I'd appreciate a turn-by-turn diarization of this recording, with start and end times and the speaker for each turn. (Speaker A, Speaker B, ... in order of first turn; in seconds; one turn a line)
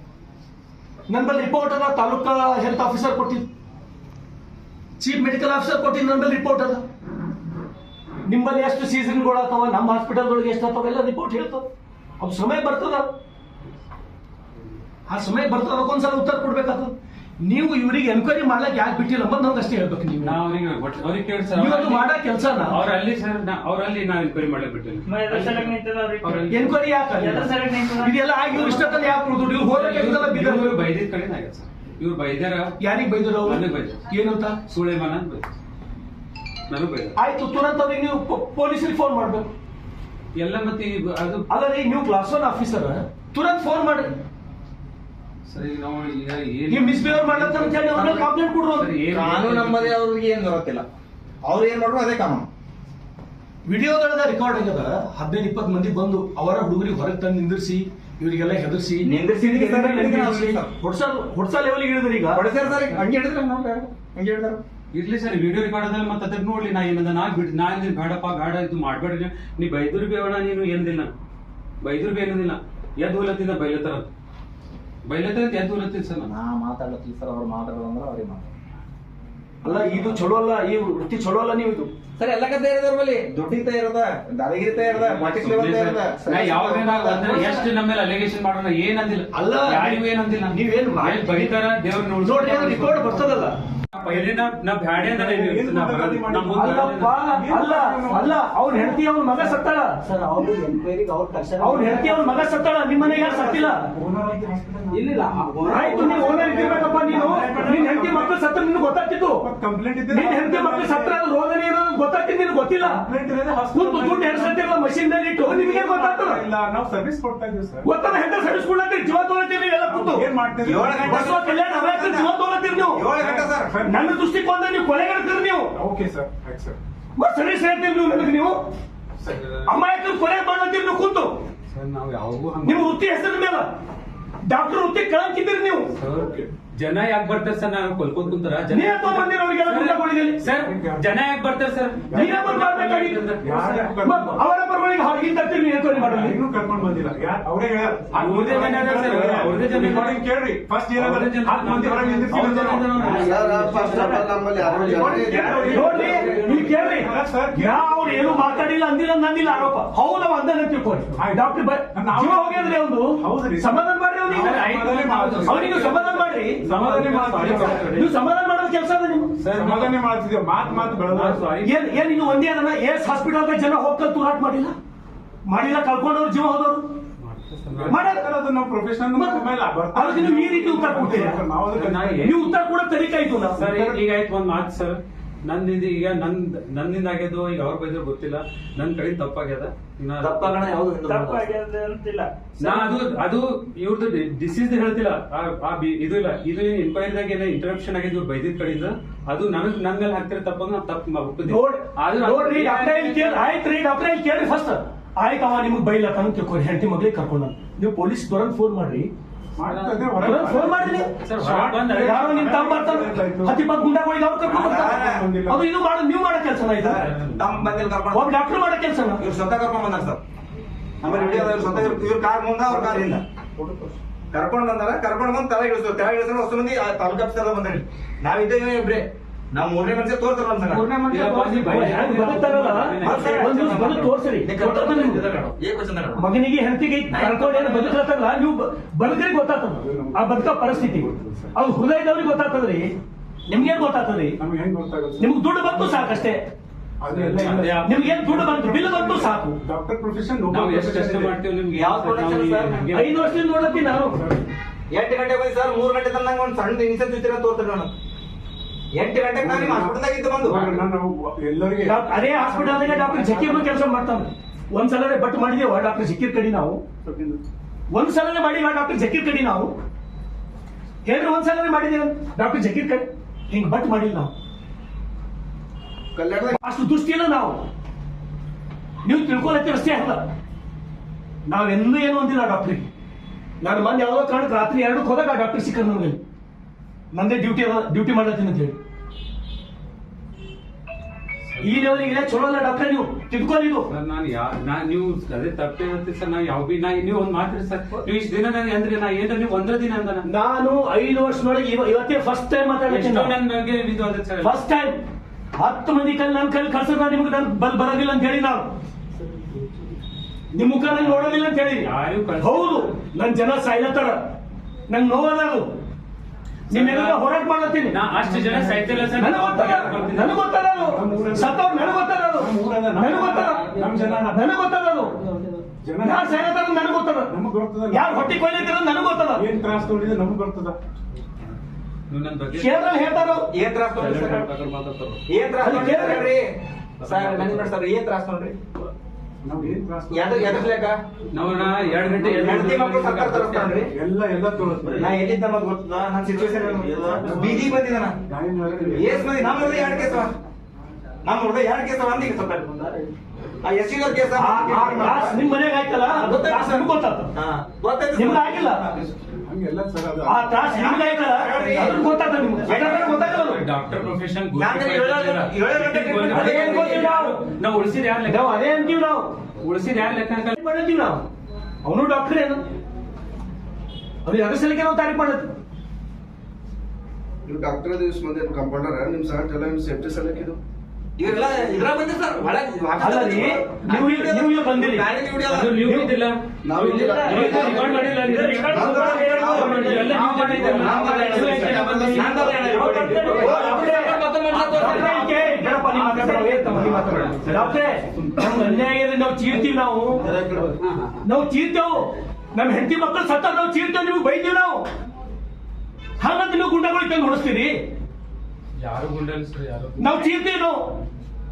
Speaker A: 1.1-3.5
Speaker A: 5.0-6.8
Speaker A: 8.3-11.7
Speaker A: 12.2-13.1
Speaker A: 15.1-20.4
Speaker B: 20.2-26.8
Speaker A: 21.6-22.8
Speaker C: 25.1-26.5
Speaker A: 26.5-30.8
Speaker C: 27.1-29.0
Speaker B: 28.5-29.0
Speaker B: 29.5-32.7
Speaker A: 32.8-34.6
Speaker B: 33.4-34.0
Speaker B: 34.7-35.5
Speaker B: 36.7-37.1
Speaker A: 37.2-39.5
Speaker B: 40.4-41.5
Speaker A: 41.5-44.1
Speaker B: 45.5-50.0
Speaker A: 46.7-48.9
Speaker D: 49.1-50.9
Speaker D: 51.4-52.5
Speaker A: 53.7-62.4
Speaker D: 59.0-60.7
Speaker D: 62.4-64.6
Speaker B: 62.6-63.0
Speaker B: 64.9-71.1
Speaker B: 71.8-74.1
Speaker B: 75.1-76.3
Speaker D: 76.2-78.5
Speaker A: 79.6-81.9
Speaker D: 79.7-80.2
Speaker D: 82.2-87.6
Speaker B: 85.0-93.2
Speaker A: 89.3-91.6
Speaker A: 92.2-93.5
Speaker B: 94.0-97.2
Speaker E: 95.0-99.0
Speaker A: 96.5-100.0
Speaker A: 101.6-103.9
Speaker E: 102.9-108.4
Speaker D: 105.2-105.7
Speaker A: 105.7-109.5
Speaker E: 109.4-111.2
Speaker A: 110.1-113.0
Speaker E: 112.8-114.7
Speaker A: 113.7-116.4
Speaker E: 115.4-118.0
Speaker A: 117.8-120.2
Speaker E: 119.8-121.3
Speaker D: 120.6-122.3
Speaker A: 121.0-123.1
Speaker D: 122.9-123.8
Speaker E: 123.1-124.2
Speaker A: 123.8-125.7
Speaker E: 125.8-126.8
Speaker A: 127.2-128.6
Speaker B: 129.2-129.7
Speaker A: 129.7-131.4
Speaker B: 131.7-132.9
Speaker A: 132.6-133.7
Speaker A: 134.5-135.9
Speaker B: 136.0-143.9
Speaker E: 136.0-136.5
Speaker A: 138.7-140.4
Speaker E: 140.4-141.1
Speaker E: 142.1-144.4
Speaker A: 142.1-143.3
Speaker A: 143.9-146.4
Speaker E: 145.9-153.3
Speaker B: 148.1-150.2
Speaker A: 148.2-149.5
Speaker B: 151.0-155.1
Speaker F: 152.9-156.3
Speaker E: 154.8-158.7
Speaker A: 154.9-164.6
Speaker C: 154.9-156.4
Speaker E: 161.2-167.8
Speaker B: 164.3-166.0
Speaker A: 165.4-166.7
Speaker B: 166.6-168.1
Speaker A: 167.4-169.4
Speaker B: 169.4-170.0
Speaker E: 169.5-171.5
Speaker B: 170.6-172.3
Speaker A: 171.6-174.7
Speaker A: 175.5-176.9
Speaker B: 177.2-178.1
Speaker E: 177.7-182.3
Speaker A: 177.9-178.3
Speaker A: 179.1-181.4
Speaker B: 181.7-182.6
Speaker A: 182.2-183.6
Speaker B: 183.6-190.7
Speaker E: 183.6-184.0
Speaker D: 190.2-191.5
Speaker C: 191.0-192.7
Speaker B: 192.6-203.6
Speaker A: 192.6-192.9
Speaker A: 201.4-209.1
Speaker E: 209.6-213.7
Speaker B: 209.6-212.6
Speaker A: 210.2-211.1
Speaker A: 211.9-217.1
Speaker E: 214.4-215.6
Speaker D: 214.5-215.3
Speaker D: 216.8-218.3
Speaker B: 216.9-217.9
Speaker A: 218.1-219.2
Speaker D: 219.2-220.2
Speaker D: 221.0-223.2
Speaker E: 221.0-222.1
Speaker E: 222.7-224.0
Speaker D: 224.3-230.9
Speaker B: 230.8-233.7
Speaker A: 231.5-235.3
Speaker D: 233.0-236.3
Speaker A: 236.2-242.9
Speaker D: 237.4-237.8
Speaker E: 239.8-241.8
Speaker A: 243.5-244.4
Speaker E: 243.6-246.3
Speaker A: 245.2-246.5
Speaker E: 247.0-251.4
Speaker B: 247.1-248.2
Speaker A: 247.8-249.6
Speaker B: 250.5-253.4
Speaker D: 251.8-252.8
Speaker A: 252.9-254.2
Speaker E: 253.9-254.4
Speaker D: 254.9-257.9
Speaker D: 258.9-260.9
Speaker E: 259.4-263.7
Speaker A: 261.8-266.8
Speaker A: 267.9-269.7
Speaker A: 271.1-274.3
Speaker F: 276.1-276.6
Speaker A: 276.6-277.6
Speaker A: 279.1-280.2
Speaker A: 281.5-282.9
Speaker A: 283.6-286.2
Speaker A: 287.1-288.8
Speaker B: 291.5-292.5
Speaker A: 291.6-293.9
Speaker B: 293.9-300.3
Speaker A: 300.3-303.3
Speaker B: 302.9-304.6
Speaker A: 304.4-305.0
Speaker A: 305.6-308.7
Speaker A: 310.5-314.2
Speaker B: 310.9-312.9
Speaker A: 314.9-315.7
Speaker B: 316.7-317.3
Speaker A: 316.7-318.0
Speaker B: 317.8-320.4
Speaker E: 318.5-319.1
Speaker A: 319.1-323.7
Speaker E: 319.6-320.1
Speaker E: 320.8-324.5
Speaker F: 323.6-324.1
Speaker A: 324.3-325.2
Speaker F: 325.2-325.6
Speaker E: 325.7-326.6
Speaker A: 326.0-327.4
Speaker E: 327.3-330.8
Speaker A: 327.9-329.5
Speaker B: 332.1-332.9
Speaker A: 332.6-333.5
Speaker D: 333.5-334.5
Speaker B: 333.9-336.3
Speaker D: 335.3-336.5
Speaker A: 335.6-336.4
Speaker B: 337.0-337.7
Speaker D: 337.0-338.6
Speaker E: 339.4-340.8
Speaker D: 340.1-341.0
Speaker B: 341.3-343.9
Speaker E: 341.4-342.9
Speaker D: 342.4-343.9
Speaker E: 343.9-345.1
Speaker B: 344.6-345.0
Speaker D: 345.0-348.2
Speaker E: 347.2-350.0
Speaker D: 348.9-350.3
Speaker D: 351.2-353.0
Speaker D: 353.6-355.4
Speaker A: 354.4-357.3
Speaker D: 356.1-359.2
Speaker A: 358.1-358.8
Speaker E: 359.4-360.6
Speaker A: 360.3-363.6
Speaker D: 360.7-362.1
Speaker D: 362.6-363.3
Speaker B: 362.7-369.0
Speaker D: 364.6-367.1
Speaker A: 366.3-367.4
Speaker A: 368.3-369.3
Speaker B: 369.6-370.6
Speaker A: 370.6-371.2
Speaker A: 371.9-372.6
Speaker A: 374.2-375.5
Speaker F: 377.5-380.6
Speaker D: 381.2-385.8
Speaker A: 383.0-385.1
Speaker B: 385.4-392.3
Speaker A: 385.8-386.1
Speaker F: 386.6-394.1
Speaker D: 387.2-395.4
Speaker C: 387.5-390.1
Speaker A: 388.9-400.3
Speaker B: 394.5-395.1
Speaker F: 394.7-397.3
Speaker B: 397.0-398.7
Speaker D: 400.2-400.6
Speaker B: 400.8-401.2
Speaker A: 401.2-404.9
Speaker A: 406.2-407.8
Speaker B: 408.8-410.3
Speaker A: 410.0-410.9